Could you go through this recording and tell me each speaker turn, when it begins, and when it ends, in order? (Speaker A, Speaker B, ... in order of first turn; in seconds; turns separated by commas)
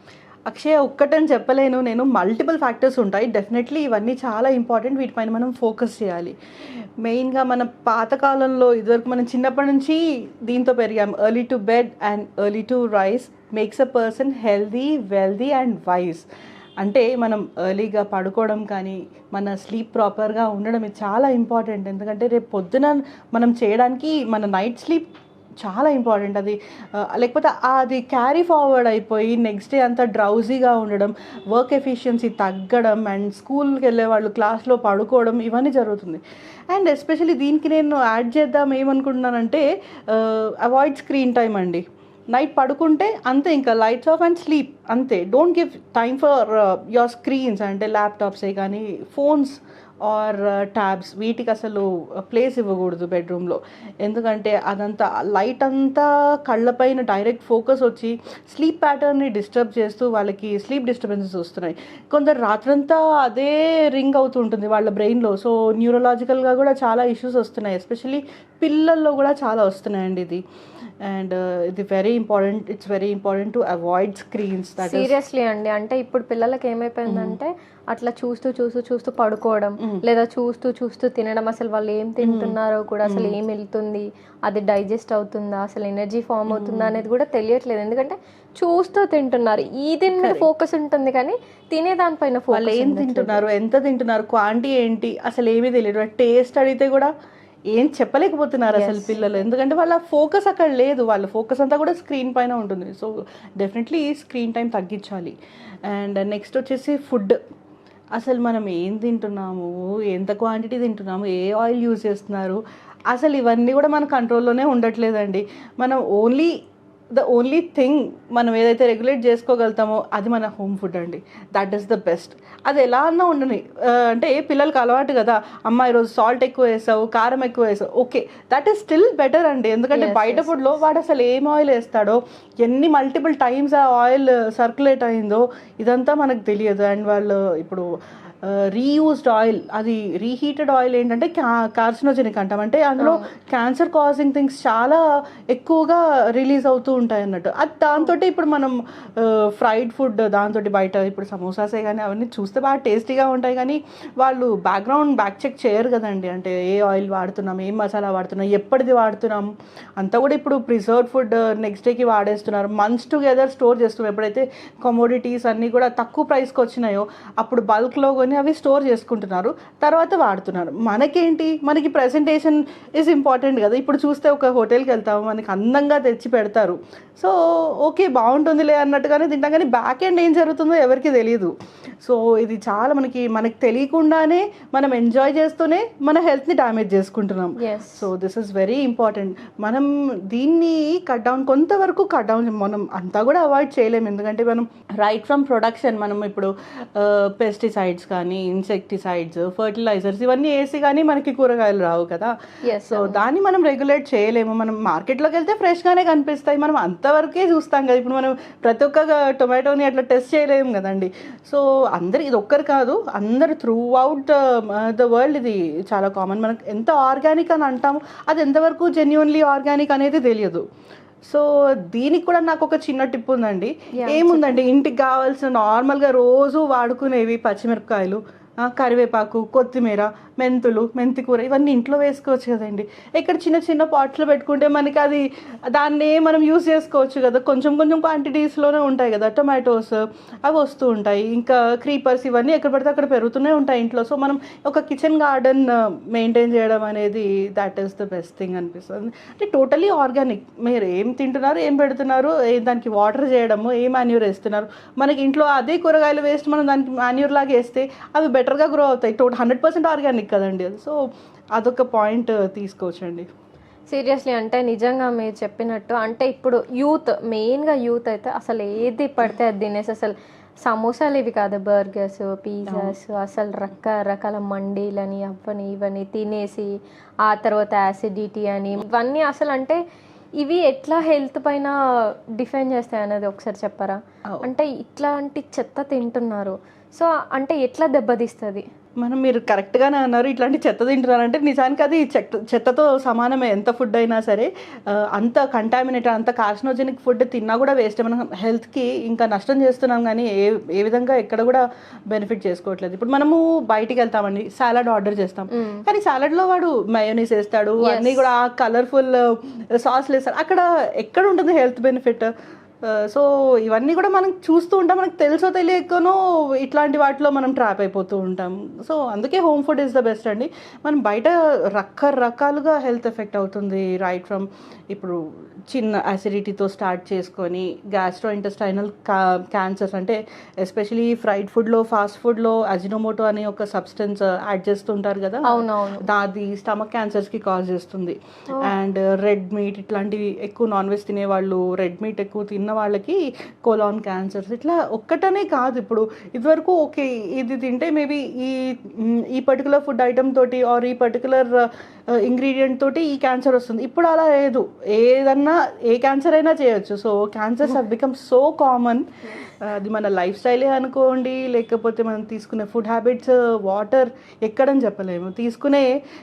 Speaker A: 0.5-6.3, Speaker A: 7.0-16.2, Speaker A: 16.8-25.1, Speaker A: 25.6-26.6, Speaker A: 27.1-70.4, Speaker A: 71.0-75.1, Speaker B: 74.8-93.4, Speaker A: 77.1-77.4, Speaker A: 82.2-82.5, Speaker A: 83.0-83.3, Speaker A: 86.5-87.0, Speaker A: 90.2-90.5, Speaker A: 92.5-97.1, Speaker A: 97.7-105.3, Speaker B: 98.7-99.4, Speaker A: 105.9-107.4, Speaker A: 108.2-112.6, Speaker A: 113.1-116.5, Speaker A: 117.1-137.8, Speaker B: 129.9-130.8, Speaker A: 138.4-145.0, Speaker B: 143.0-143.3, Speaker A: 145.5-220.6, Speaker B: 187.6-188.1, Speaker B: 202.7-203.2, Speaker A: 221.3-261.0, Speaker B: 224.0-224.6, Speaker A: 261.6-263.3, Speaker B: 263.9-270.1, Speaker B: 270.6-276.7, Speaker A: 272.7-272.9, Speaker B: 277.2-279.8, Speaker B: 280.4-281.7, Speaker B: 282.4-288.6, Speaker A: 289.0-294.5, Speaker A: 295.1-312.3, Speaker B: 305.5-305.8, Speaker B: 307.8-308.2, Speaker A: 312.8-325.2, Speaker A: 325.7-351.7, Speaker B: 335.5-336.0, Speaker A: 352.2-365.9